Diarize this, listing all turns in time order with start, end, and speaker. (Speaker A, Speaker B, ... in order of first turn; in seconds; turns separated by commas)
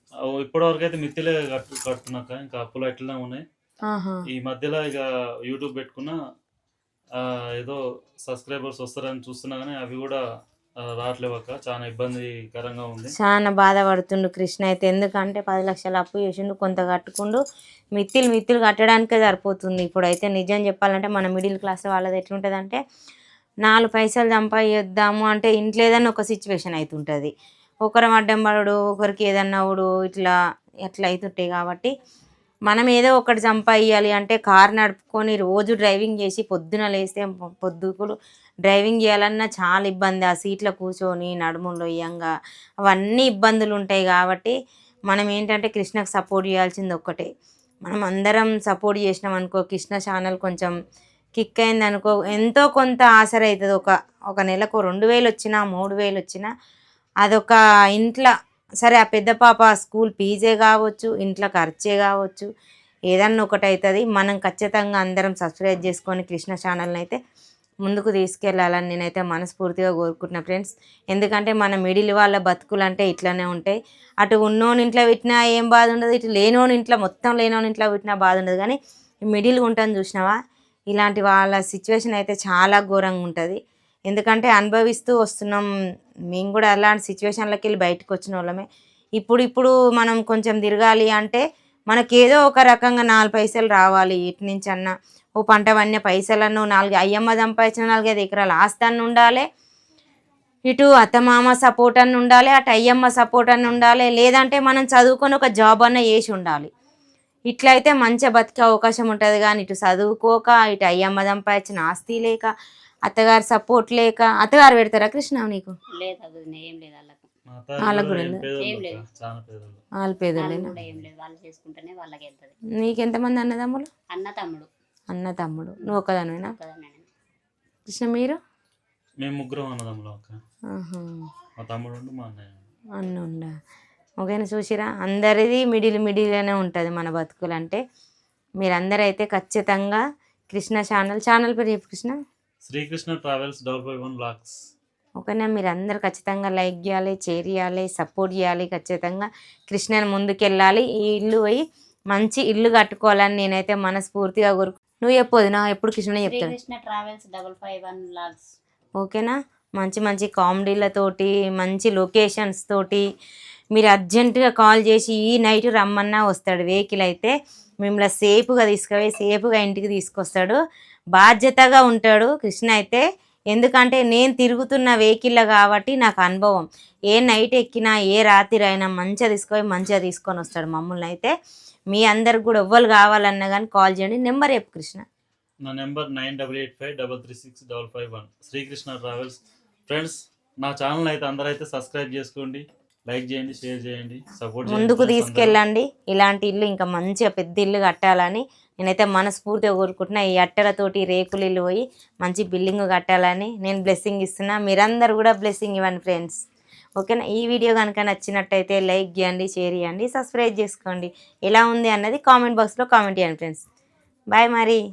Speaker A: 0.2-3.4, Speaker B: 3.9-4.2, Speaker A: 4.3-6.2, Speaker A: 7.2-10.2, Speaker A: 10.8-13.1, Speaker B: 13.2-17.4, Speaker B: 18.0-22.8, Speaker B: 23.6-27.3, Speaker B: 27.8-30.3, Speaker B: 30.9-31.9, Speaker B: 32.7-42.3, Speaker B: 42.9-44.5, Speaker B: 45.1-47.3, Speaker B: 47.9-50.7, Speaker B: 51.4-56.5, Speaker B: 57.2-62.5, Speaker B: 63.1-67.2, Speaker B: 67.8-78.8, Speaker B: 79.3-80.3, Speaker B: 80.9-85.7, Speaker B: 86.3-88.7, Speaker B: 89.2-99.5, Speaker B: 100.7-106.7, Speaker B: 107.5-112.5, Speaker B: 113.1-115.7, Speaker C: 116.0-117.3, Speaker A: 117.5-119.8, Speaker B: 117.8-118.5, Speaker C: 118.6-119.0, Speaker B: 120.0-120.7, Speaker C: 120.4-122.5, Speaker A: 120.8-121.1, Speaker B: 122.8-123.9, Speaker C: 124.1-124.7, Speaker B: 125.1-126.5, Speaker C: 126.4-127.1, Speaker B: 127.9-128.4, Speaker A: 129.2-130.4, Speaker B: 130.7-131.2, Speaker A: 131.6-132.6, Speaker B: 133.0-133.5, Speaker B: 134.2-137.8, Speaker B: 138.6-140.0, Speaker B: 140.5-142.1, Speaker A: 142.7-144.5, Speaker B: 145.2-156.5, Speaker C: 156.2-158.4, Speaker B: 159.0-163.0, Speaker B: 163.7-170.6, Speaker B: 171.2-181.3, Speaker B: 181.9-185.0, Speaker A: 185.6-195.6, Speaker B: 194.7-206.4, Speaker B: 207.0-213.6, Speaker B: 214.3-214.8